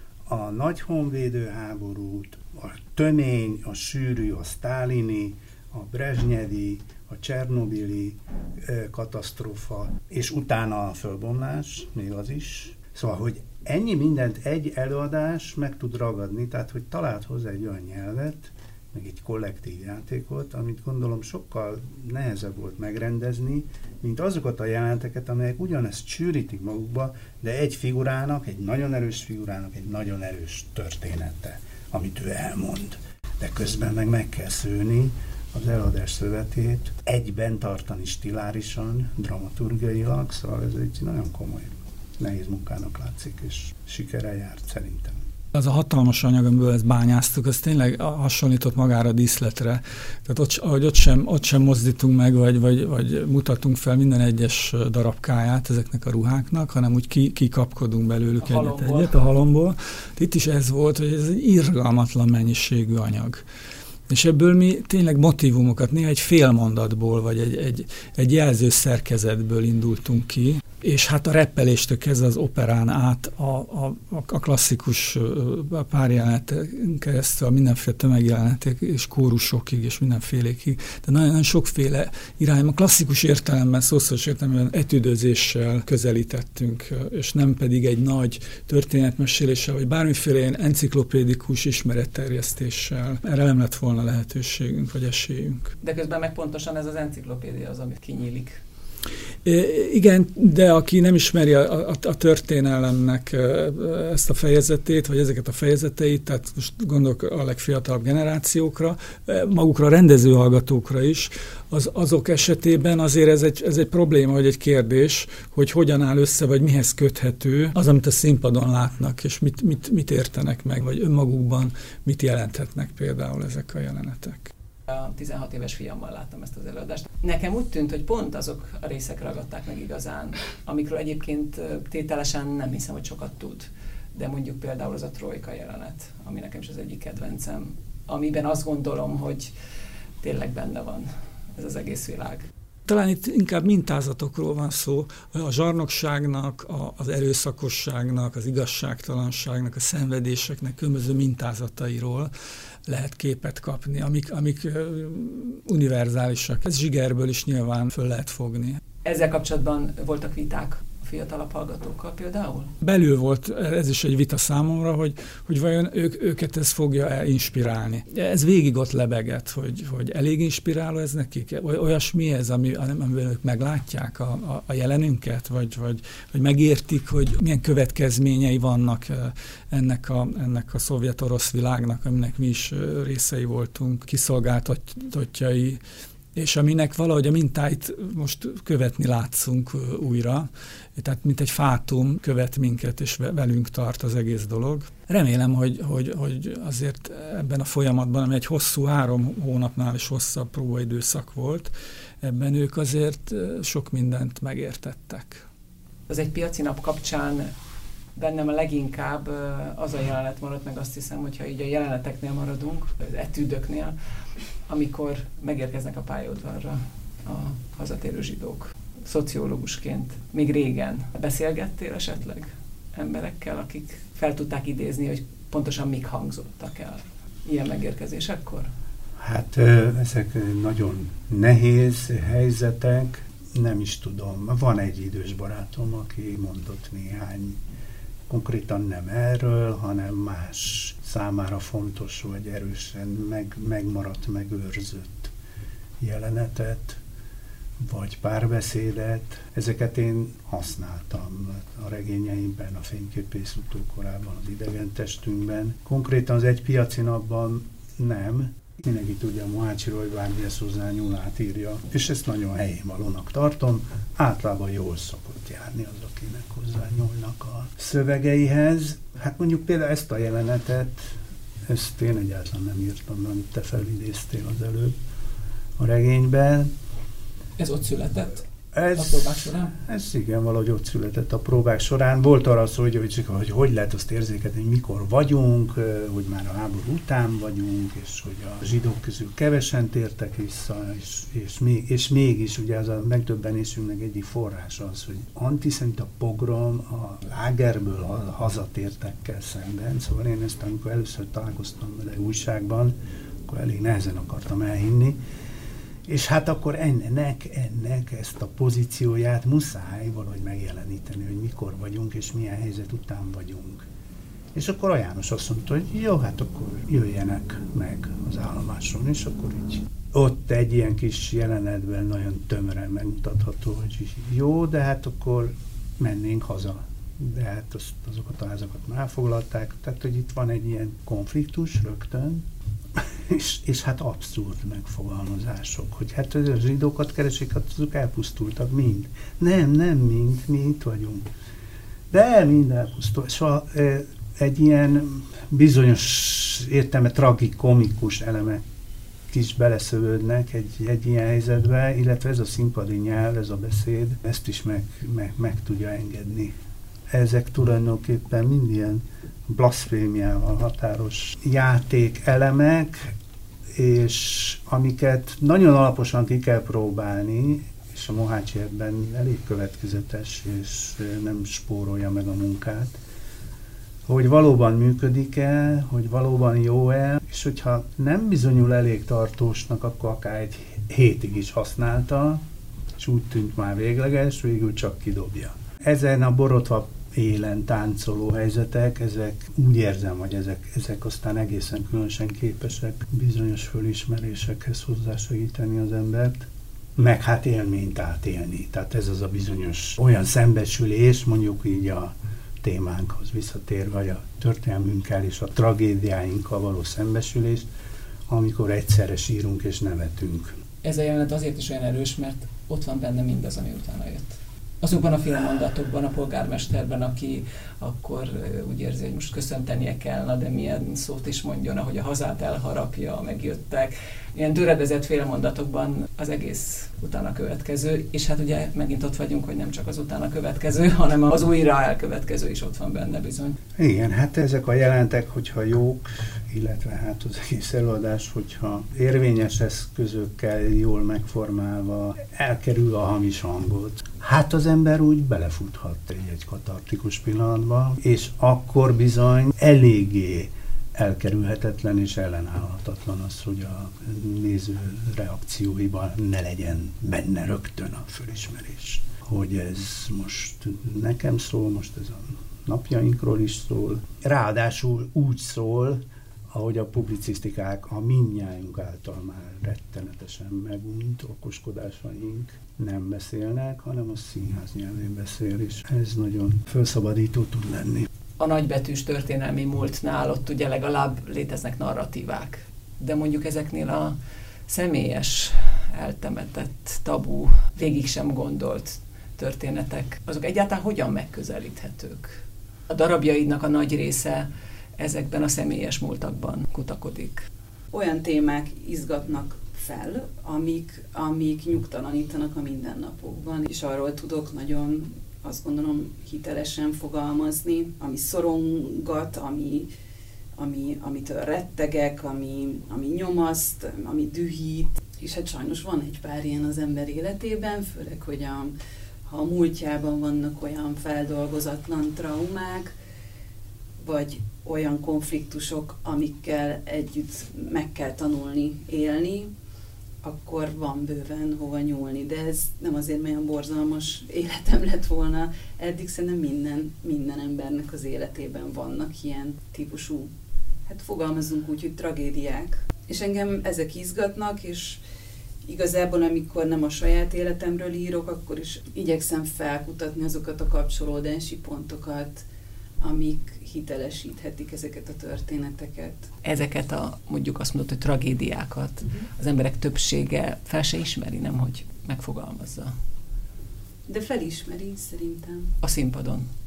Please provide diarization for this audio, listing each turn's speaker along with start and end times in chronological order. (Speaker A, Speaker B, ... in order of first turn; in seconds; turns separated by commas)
Speaker A: 0.2-45.2, Speaker B: 45.5-63.4, Speaker C: 58.4-59.4, Speaker B: 64.1-95.7, Speaker C: 95.8-98.6, Speaker B: 99.4-124.5, Speaker C: 124.9-139.5, Speaker C: 140.2-142.4, Speaker B: 142.9-152.3, Speaker B: 152.8-158.8, Speaker C: 159.0-162.7, Speaker B: 162.8-185.8, Speaker B: 186.3-205.4, Speaker C: 206.1-207.5, Speaker C: 208.2-213.9, Speaker C: 214.7-228.7, Speaker A: 229.2-237.6, Speaker A: 238.3-245.3, Speaker A: 246.0-247.0, Speaker A: 247.8-271.1, Speaker A: 271.7-274.9, Speaker A: 275.8-276.7, Speaker C: 277.6-278.4, Speaker A: 278.7-305.2, Speaker C: 279.0-279.7, Speaker A: 306.1-313.8, Speaker A: 314.5-332.4, Speaker A: 332.9-341.3, Speaker A: 342.1-348.6, Speaker A: 349.3-356.5, Speaker A: 357.1-363.1, Speaker A: 363.7-373.0, Speaker A: 374.1-382.4, Speaker A: 383.0-407.7, Speaker A: 408.3-410.5, Speaker C: 410.8-433.6, Speaker A: 433.8-478.1, Speaker C: 478.4-484.1, Speaker C: 484.7-492.3, Speaker C: 492.9-497.5, Speaker D: 497.9-509.9, Speaker D: 510.6-518.7, Speaker D: 519.3-522.9, Speaker D: 524.0-529.5, Speaker D: 530.2-540.3, Speaker D: 540.9-545.0, Speaker D: 545.6-552.4, Speaker D: 553.0-556.3, Speaker C: 556.4-562.9, Speaker D: 564.1-565.7, Speaker C: 565.8-566.5